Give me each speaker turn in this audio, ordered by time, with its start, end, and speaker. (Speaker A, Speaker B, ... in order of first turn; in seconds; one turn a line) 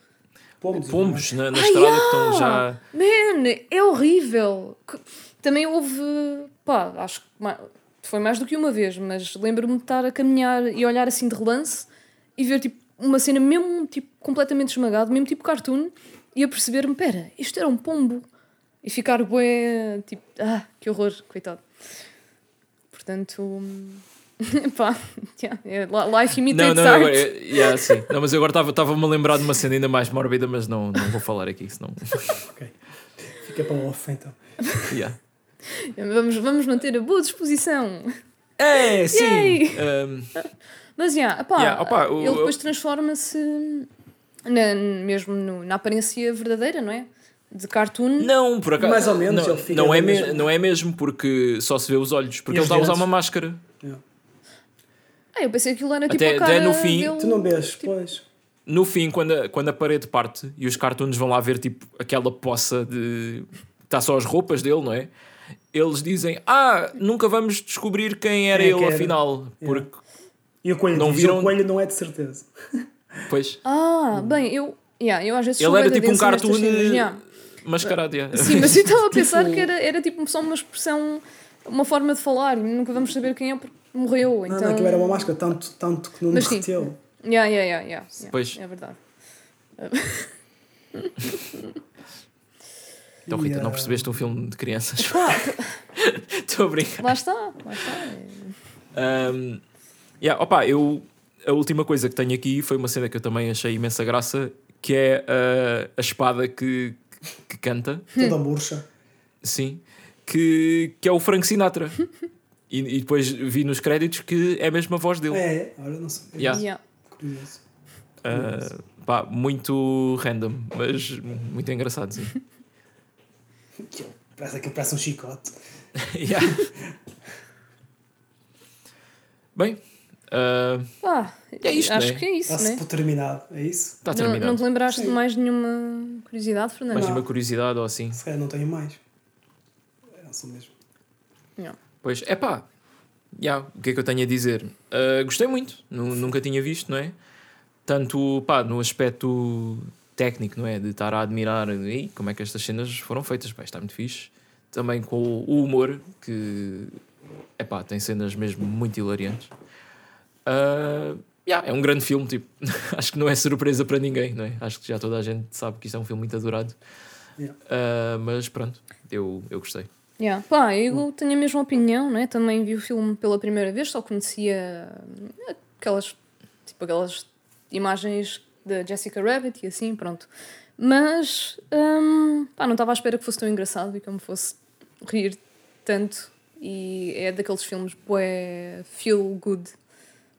Speaker A: 0.6-1.3
Speaker B: 0.7-2.8
Speaker C: 1.5-18.2
Speaker C: 18.8-21.6
Speaker C: 22.9-28.0
Speaker B: 26.5-32.4
Speaker A: 32.4-34.4
Speaker B: 34.9-35.2
Speaker C: 35.7-38.2
Speaker B: 38.6-40.3
Speaker C: 39.1-39.8
Speaker C: 41.0-43.9
Speaker B: 41.6-42.5
Speaker C: 44.4-48.3
Speaker B: 48.2-53.6
Speaker A: 48.8-50.5
Speaker A: 52.5-53.1
Speaker C: 55.3-57.9
Speaker B: 56.1-57.1
Speaker A: 57.2-58.2
Speaker B: 58.7-65.1
Speaker B: 65.7-69.9
Speaker A: 68.5-69.8
Speaker A: 70.6-72.8
Speaker B: 70.9-71.5
Speaker B: 73.3-73.6
Speaker C: 73.6-77.2
Speaker B: 75.6-78.9
Speaker C: 77.8-85.5
Speaker A: 79.2-79.7
Speaker A: 84.5-87.0
Speaker C: 86.3-89.0
Speaker B: 88.2-88.6
Speaker C: 89.8-90.3
Speaker C: 91.0-91.7
Speaker A: 93.2-94.0
Speaker B: 93.3-97.1
Speaker C: 95.0-95.7
Speaker C: 97.0-98.5
Speaker B: 98.9-99.6
Speaker B: 100.2-108.1
Speaker A: 108.2-108.8
Speaker B: 109.4-112.1
Speaker B: 112.7-115.4
Speaker A: 115.3-117.6
Speaker B: 116.4-116.6
Speaker C: 116.5-116.8
Speaker B: 118.2-122.3
Speaker A: 118.3-118.7
Speaker A: 123.8-125.5
Speaker B: 126.0-126.7
Speaker B: 129.5-130.9
Speaker C: 131.0-132.8
Speaker B: 131.6-132.2
Speaker A: 132.5-134.0
Speaker B: 134.0-134.6
Speaker C: 134.1-137.2
Speaker A: 134.9-135.2
Speaker B: 136.9-138.2
Speaker A: 136.9-137.2
Speaker A: 138.1-139.0
Speaker A: 140.2-140.7
Speaker B: 142.0-142.7
Speaker B: 143.3-147.1
Speaker B: 147.8-157.0
Speaker B: 157.6-159.5
Speaker B: 160.4-166.8
Speaker B: 167.7-169.9
Speaker C: 170.2-189.7